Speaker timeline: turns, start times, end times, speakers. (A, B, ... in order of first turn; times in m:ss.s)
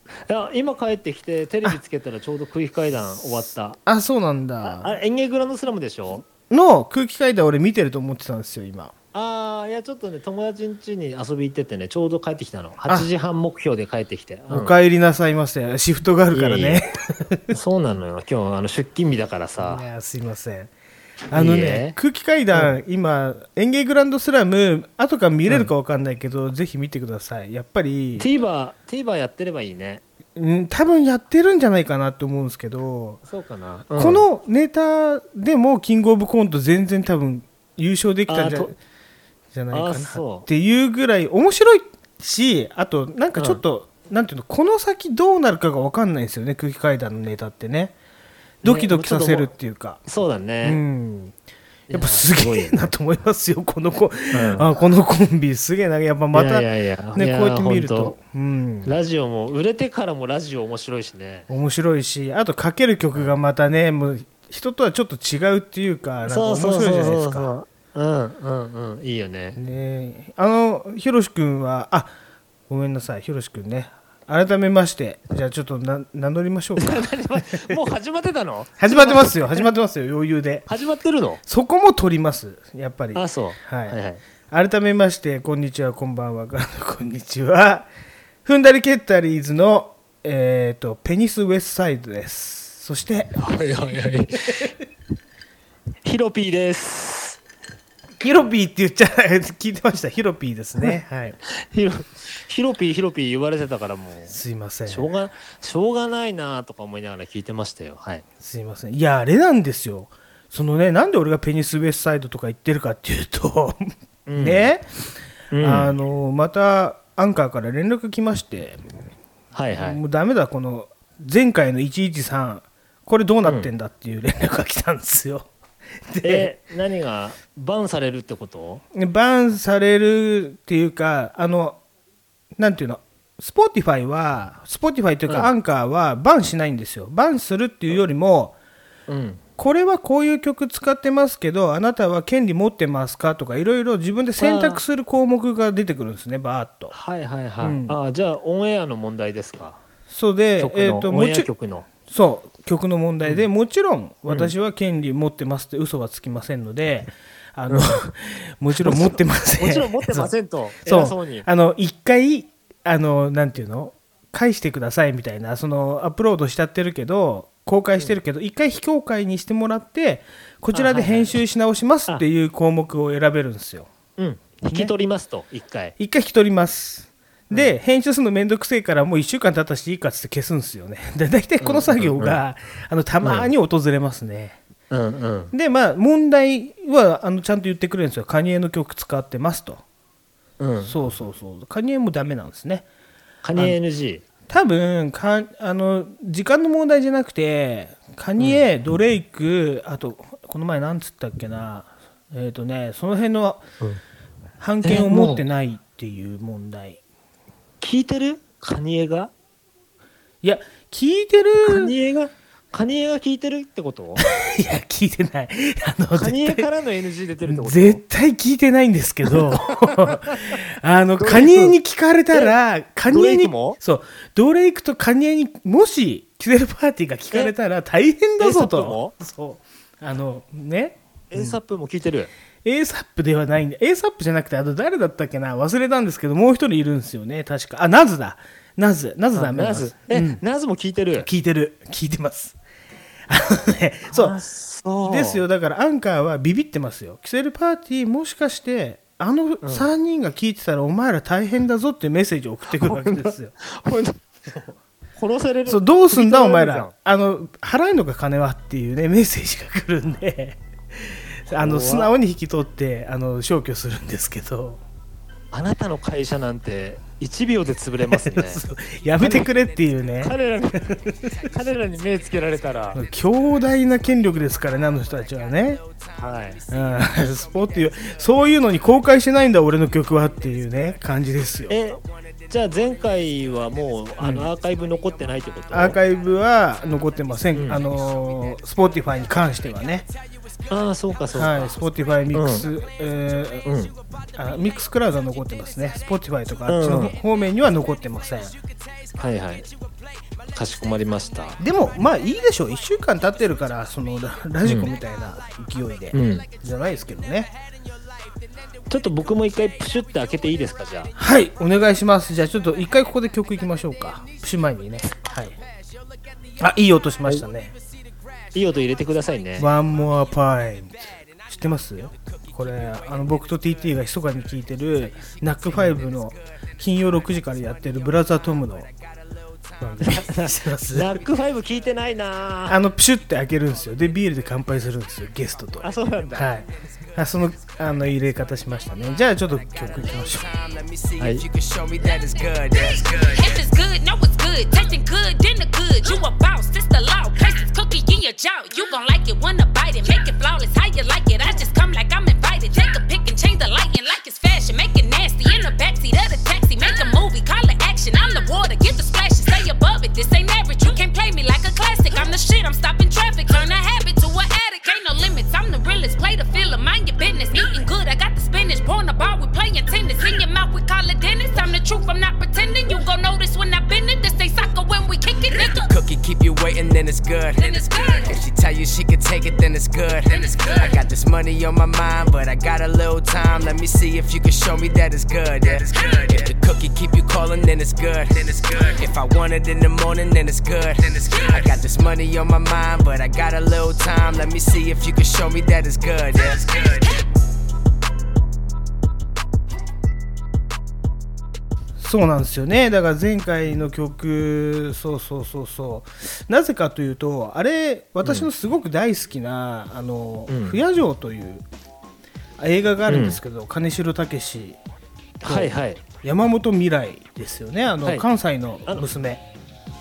0:00.3-0:03.8 A
0:03.9-0:04.9 B
0:04.6-0:06.3 A
0:06.5-0:08.9 B
0:09.1-0:14.7 A
0:14.5-0:17.4 B
0:16.3-0:16.8 A
0:17.5-0:19.9 A
0:19.6-0:20.7 B
0:21.3-0:28.3 B
0:21.3-0:22.0 A
0:28.2-0:30.0 A
0:30.4-0:33.2 B
0:33.3-0:34.3 A
0:34.0-0:38.8 B
0:38.3-0:38.8 A
0:39.5-0:47.9 B
0:39.7-0:40.5 A
0:48.6-0:50.0 B
0:48.6-0:49.5 A
0:50.1-0:50.8 A
0:50.6-0:51.3 B
0:51.9-0:52.9 A
0:51.9-0:58.9 B
0:54.3-0:54.7 A
0:56.3-0:58.2 A
0:58.8-1:01.5 A
1:01.5-1:07.5 B
1:06.3-1:09.6 A
1:09.6-1:12.1 B
1:12.7-1:17.8 B
1:16.8-1:19.7 A
1:18.8-1:20.7 B
1:20.7-1:21.4 A
1:21.4-1:24.0 B
1:23.2-1:24.2 A
1:24.5-1:27.9 B
1:28.4-1:33.4 B
1:33.4-1:34.7 A
1:36.0-1:37.4 A
1:38.2-1:41.4 B
1:41.5-1:48.2 A
1:44.3-1:45.1 B
1:48.4-1:54.9 B
1:54.3-1:54.7 A
1:55.5-1:55.9 A
1:55.6-1:58.8 B
1:59.5-2:00.0 A
1:59.8-2:05.5 B
2:06.1-2:06.5 B
2:06.2-2:08.8 A
2:08.9-2:11.8 B
2:12.6-2:18.6 B
2:15.3-2:15.5 A
2:19.1-2:19.4 A
2:19.6-2:27.0 B
2:24.4-2:24.8 A
2:26.9-2:29.8 A
2:27.6-2:28.0 B
2:30.1-2:40.3 B
2:30.6-2:31.9 A
2:34.3-2:34.5 A
2:37.7-2:38.0 A
2:38.8-2:41.5 A
2:40.8-2:53.9 B
2:50.7-2:51.4 A
2:54.2-2:56.0 A
2:56.0-3:04.6 B
3:01.6-3:02.4 A
3:03.2-3:03.5 A
3:04.9-3:05.5 A
3:05.5-3:09.8 B
3:10.6-3:11.0 A
3:10.8-3:12.9 B
3:13.4-3:14.2 A
3:14.5-3:23.7 B
3:18.4-3:18.6 A
3:24.6-3:27.0 B
3:24.8-3:25.4 A
3:27.8-3:29.3 A
3:30.4-3:31.9 B
3:31.6-3:34.2 A
3:34.2-3:36.7 B
3:36.2-3:38.0 A
3:37.4-3:51.6 B
3:39.3-3:40.6 A
3:41.2-3:41.8 A
3:43.1-3:43.8 A
3:48.4-3:49.1 A
3:51.3-3:52.3 A
3:52.6-4:00.4 B
3:59.4-4:01.3 A
4:01.2-4:02.6 B
4:03.3-4:04.4 B
4:04.1-4:05.4 A
4:05.0-4:13.5 B
4:09.6-4:09.9 A
4:12.8-4:16.9 A
4:15.7-4:24.8 B
4:21.5-4:22.1 A
4:25.5-4:28.6 A
4:28.1-4:31.3 B
4:29.2-4:29.5 A
4:30.2-4:33.0 A
4:32.9-4:35.8 B
4:36.2-4:36.6 A
4:36.7-4:41.8 B
4:41.7-4:46.0 A
4:44.2-4:44.5 B
4:45.7-4:50.1 B
4:47.5-4:47.8 A
4:50.7-4:51.7 A
4:51.3-4:53.7 B
4:52.3-4:52.7 A
4:53.6-4:53.9 A
4:54.3-4:58.6 B
4:56.7-4:57.2 A
4:59.2-4:59.7 A
5:00.5-5:01.6 A
5:01.6-5:07.5 B
5:04.6-5:04.9 A
5:06.1-5:06.5 A
5:08.9-5:11.1 A
5:11.2-5:15.6 B
5:16.6-5:17.7 B
5:18.5-5:19.7 A
5:19.6-5:28.9 B
5:29.8-5:31.2 B
5:30.0-5:32.8 A
5:32.7-5:40.5 B
5:35.8-5:36.5 A
5:40.2-5:43.6 C
5:41.2-5:41.4 A
5:42.8-6:15.9 D
6:15.6-6:37.2 C
6:17.6-6:18.4 D
6:20.3-6:21.0 D
6:26.0-6:26.4 D
6:42.0-6:51.6 B
6:48.2-6:48.5 A
6:50.5-6:50.8 A
6:52.6-6:54.8 B
6:53.1-6:53.4 A
6:55.4-6:56.0 A
6:55.4-6:59.4 B